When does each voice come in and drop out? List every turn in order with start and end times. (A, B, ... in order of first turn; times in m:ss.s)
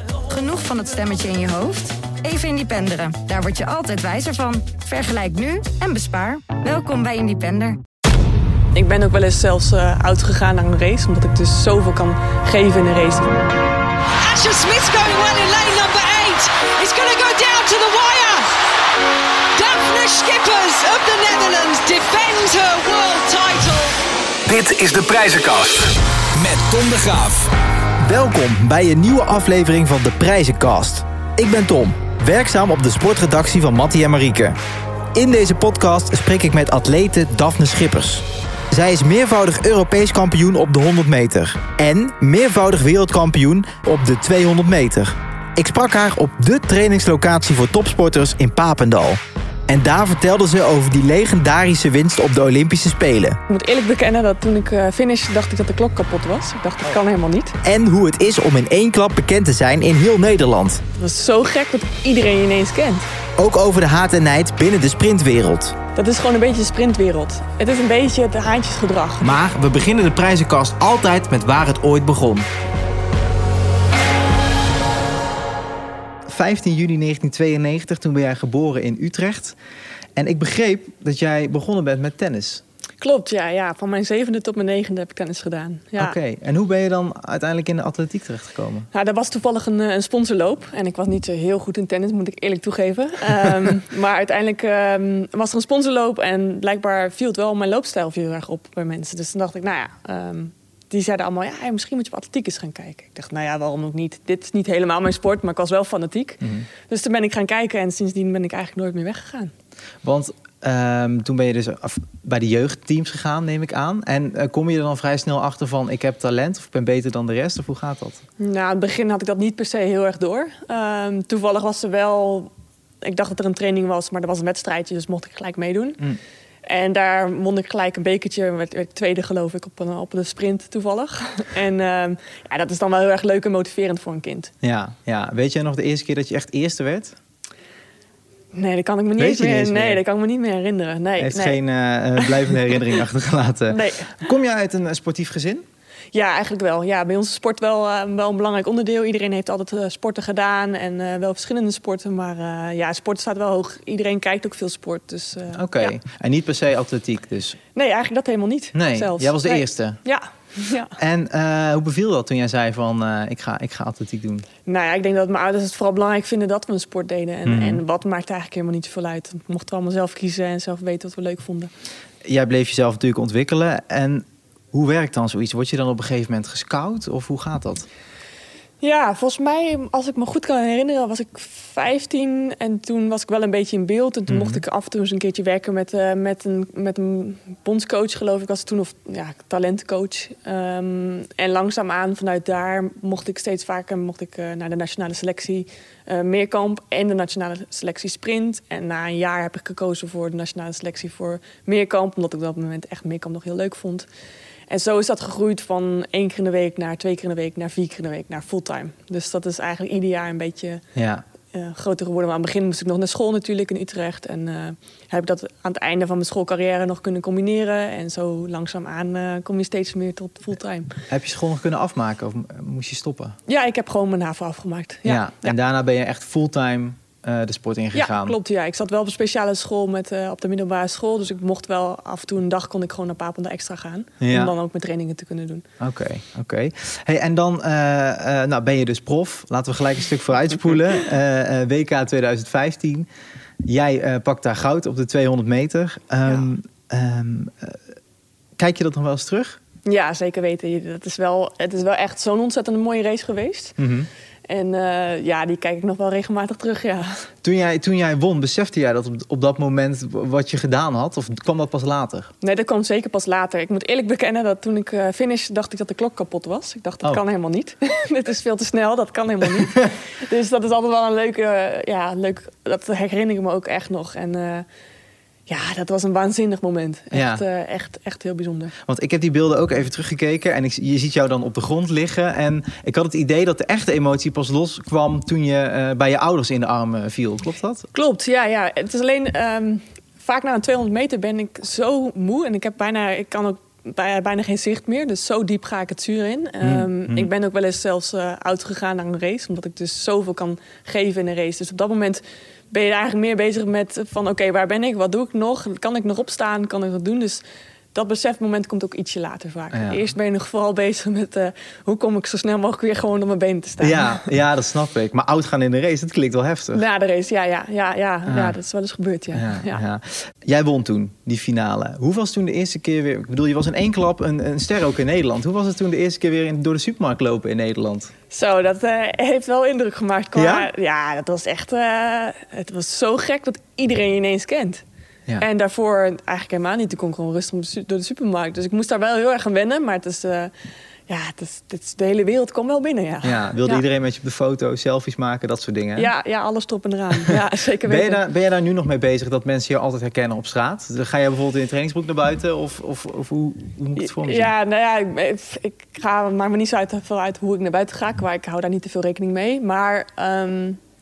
0:00.3-0:07.8 A
0:08.7-0:13.4 B
0:14.2-0:18.5 C
0:15.8-0:16.4 A
0:19.6-0:24.0 C
0:24.5-0:27.5 D
0:28.0-0:34.6 E
0:35.1-0:53.4 E
0:53.5-0:57.6 B
0:57.6-1:00.8 E
1:01.0-1:03.1 B
1:03.4-1:05.8 E
1:06.0-1:09.4 B
1:09.2-1:12.5 E
1:16.3-1:19.6 E
1:20.2-1:22.6 E
1:23.0-1:26.2 B
1:26.0-1:28.9 E
1:28.9-1:49.5 B
1:46.4-1:46.7 E
1:50.0-1:58.2 E
1:58.4-2:02.5 B
2:03.0-2:06.0 B
2:06.7-2:14.5 B
2:14.6-2:17.2 E
2:18.5-2:21.6 B
2:19.2-2:20.0 E
2:21.2-2:25.6 E
2:22.2-2:22.9 B
2:23.7-2:24.2 B
2:26.1-2:36.0 B
2:35.6-2:37.6 E
2:37.7-2:41.0 B
2:38.7-2:40.0 E
2:41.0-2:44.5 E
2:44.7-2:51.7 B
2:47.4-2:47.8 E
2:52.2-2:57.9 E
2:58.8-3:24.1 B
3:04.3-3:04.6 E
3:24.7-3:30.8 B
3:31.0-3:31.2 E
3:31.5-3:41.0 B
3:41.1-3:43.4 E
3:43.5-3:45.6 B
3:45.0-3:48.4 E
3:47.9-3:55.6 B
3:54.2-3:54.5 E
3:55.8-4:03.1 E
4:03.6-4:07.8 E
4:08.6-4:09.6 E
4:09.8-4:13.8 B
4:13.8-4:14.1 E
4:14.5-4:17.3 B
4:17.4-4:22.3 E
4:22.4-4:34.7 B
4:35.5-4:38.7 B
4:37.1-4:37.4 E
4:38.8-4:47.9 E
4:47.9-5:07.4 B
4:56.6-4:57.3 E
5:08.0-5:14.3 B
5:09.7-5:10.0 E
5:13.8-5:16.8 E
5:16.7-5:19.8 B
5:18.3-5:18.6 E
5:19.3-5:28.1 E
5:28.3-5:34.8 B
5:30.4-5:30.7 E
5:35.4-5:40.5 B
5:41.1-5:43.8 B
5:43.2-5:46.1 E
5:46.0-5:48.2 B
5:47.8-5:54.5 E
5:54.0-6:00.8 B